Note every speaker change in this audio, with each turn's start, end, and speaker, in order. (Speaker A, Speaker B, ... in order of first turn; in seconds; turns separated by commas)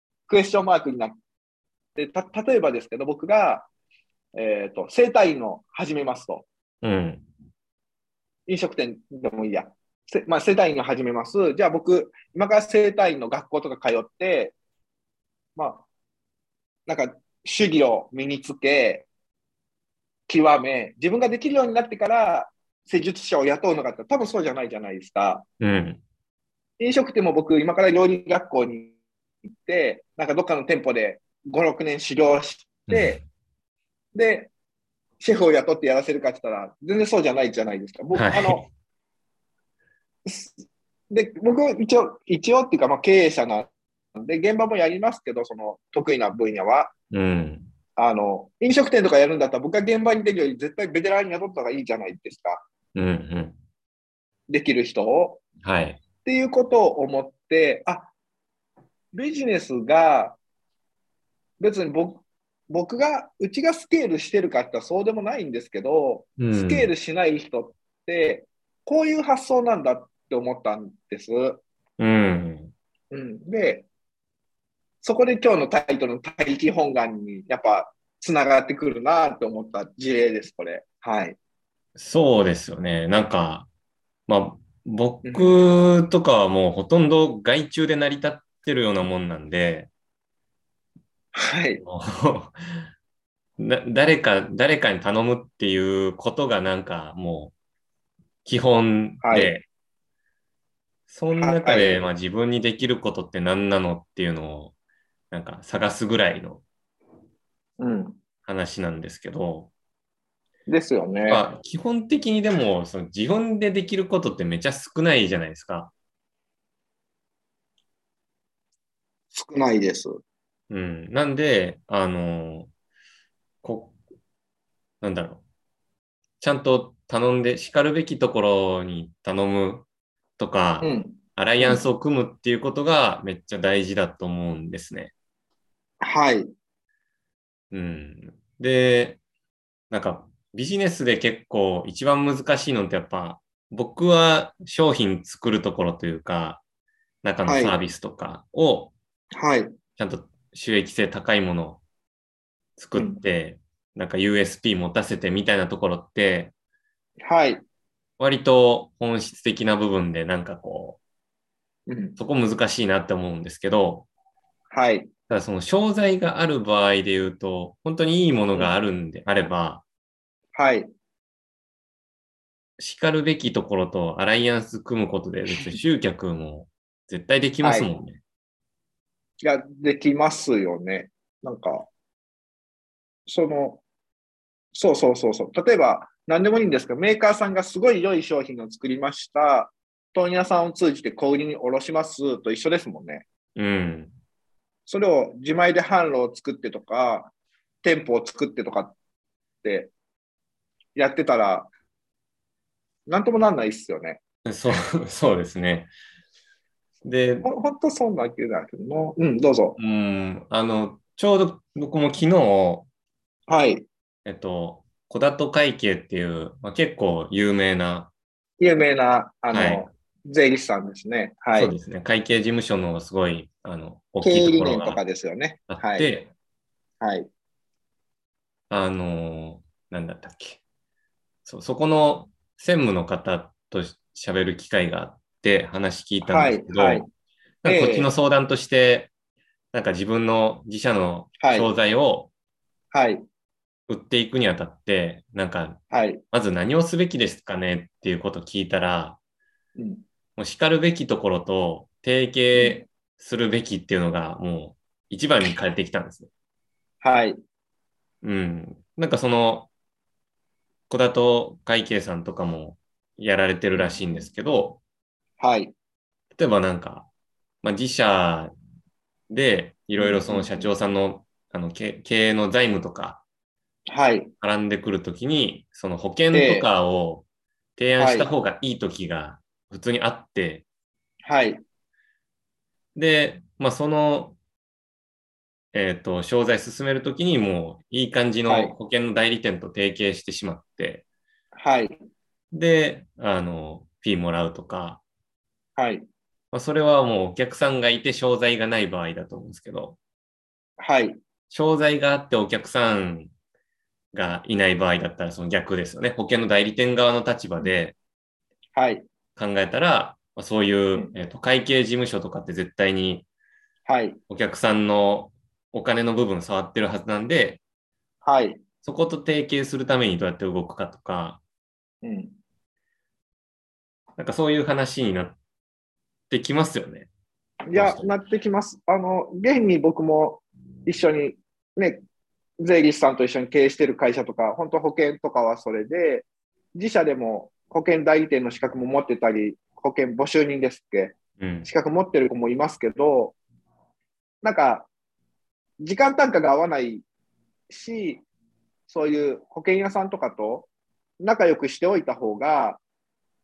Speaker A: 0.3-1.2, Speaker A: 2.0-3.7, Speaker A: 4.3-6.5, Speaker B: 6.8-7.2, Speaker A: 8.5-14.6, Speaker A: 15.6-15.8, Speaker A: 16.9-19.1, Speaker A: 20.3-25.4, Speaker B: 25.6-26.0, Speaker A: 26.8-28.9, Speaker A: 29.6-33.2, Speaker B: 32.9-33.2, Speaker A: 34.1-34.5, Speaker A: 35.2-38.6, Speaker B: 38.1-38.7, Speaker A: 40.2-40.6, Speaker A: 41.1-46.9, Speaker B: 47.1-47.7, Speaker A: 48.0-52.6, Speaker B: 53.0-53.6, Speaker A: 54.5-55.4, Speaker B: 55.6-56.0, Speaker A: 56.2-58.1, Speaker A: 59.1-60.4, Speaker A: 61.6-71.6, Speaker B: 66.4-66.9, Speaker B: 72.0-72.7, Speaker A: 73.1-73.9, Speaker A: 75.0-81.4, Speaker B: 82.0-83.7, Speaker B: 84.3-89.9, Speaker A: 85.2-85.6, Speaker A: 91.4-91.8, Speaker B: 91.8-92.8, Speaker B: 93.6-97.5, Speaker B: 98.5-99.7, Speaker A: 99.2-99.6, Speaker B: 101.1-104.7, Speaker A: 101.4-102.0, Speaker B: 105.3-106.6, Speaker A: 107.8-108.2, Speaker B: 108.5-109.7, Speaker A: 110.7-111.4, Speaker B: 111.3-115.9, Speaker A: 119.3-120.2, Speaker B: 120.7-122.7, Speaker B: 123.6-124.0, Speaker B: 125.0-125.4, Speaker B: 126.4-129.9, Speaker B: 130.4-135.1, Speaker A: 130.8-131.8, Speaker A: 136.0-136.5, Speaker B: 137.7-139.2, Speaker B: 139.9-146.6, Speaker B: 147.2-148.9, Speaker A: 147.5-147.8, Speaker A: 149.3-149.7, Speaker B: 150.0-151.8, Speaker B: 152.8-156.5, Speaker A: 152.9-153.2, Speaker A: 157.2-157.6, Speaker B: 158.2-161.0, Speaker A: 161.9-162.2, Speaker B: 162.2-164.1, Speaker A: 164.7-165.1, Speaker B: 165.3-169.8, Speaker A: 170.5-170.9, Speaker B: 172.8-178.2, Speaker A: 177.6-177.9, Speaker A: 179.4-181.9, Speaker A: 183.3-183.8, Speaker A: 184.7-193.2, Speaker B: 193.6-194.1, Speaker A: 194.9-197.3, Speaker A: 197.8-198.9, Speaker A: 199.6-199.9, Speaker A: 201.0-201.7, Speaker A: 203.1-204.2, Speaker B: 204.5-205.9, Speaker B: 207.1-207.5, Speaker A: 207.4-209.8, Speaker B: 209.8-212.9, Speaker A: 213.5-213.9, Speaker B: 214.2-218.1, Speaker A: 218.6-221.7, Speaker B: 219.5-219.9, Speaker B: 221.6-225.0, Speaker A: 224.2-226.1, Speaker B: 225.7-226.3, Speaker A: 227.0-227.3, Speaker B: 228.7-230.6, Speaker B: 231.5-237.1, Speaker A: 236.2-237.1, Speaker B: 237.6-239.1, Speaker A: 237.7-238.1, Speaker B: 239.7-242.3, Speaker A: 241.4-241.7, Speaker A: 242.9-243.2, Speaker B: 243.9-245.8, Speaker A: 245.9-246.2, Speaker B: 246.3-249.2, Speaker A: 249.8-250.0, Speaker B: 250.4-256.3, Speaker A: 252.5-252.8, Speaker A: 257.0-257.4, Speaker B: 258.2-259.7, Speaker B: 260.9-264.8, Speaker A: 263.7-264.2, Speaker A: 265.4-265.7, Speaker B: 266.4-267.1, Speaker B: 267.6-268.5, Speaker B: 269.3-273.2, Speaker A: 270.0-270.7, Speaker A: 273.9-274.3, Speaker B: 274.4-277.2, Speaker A: 276.3-276.7, Speaker B: 277.8-280.6, Speaker A: 278.0-278.3, Speaker A: 281.2-281.6, Speaker B: 283.0-284.4, Speaker B: 285.7-291.1, Speaker A: 288.5-288.7, Speaker A: 291.6-291.9, Speaker B: 292.5-295.0, Speaker A: 295.8-296.1, Speaker B: 296.5-300.0, Speaker A: 300.8-301.2, Speaker B: 301.5-303.3, Speaker B: 304.1-308.0, Speaker A: 308.8-309.1, Speaker B: 309.4-313.3, Speaker A: 313.9-314.2, Speaker B: 314.3-317.6, Speaker A: 318.2-318.6, Speaker B: 318.8-321.4, Speaker A: 322.0-322.4, Speaker B: 324.2-325.4, Speaker B: 326.3-327.1, Speaker A: 327.7-332.0, Speaker B: 327.7-328.1, Speaker A: 332.6-343.4, Speaker B: 341.4-341.7, Speaker A: 344.4-344.9, Speaker A: 345.8-347.0, Speaker A: 347.7-348.2, Speaker A: 348.9-350.7, Speaker A: 351.2-352.8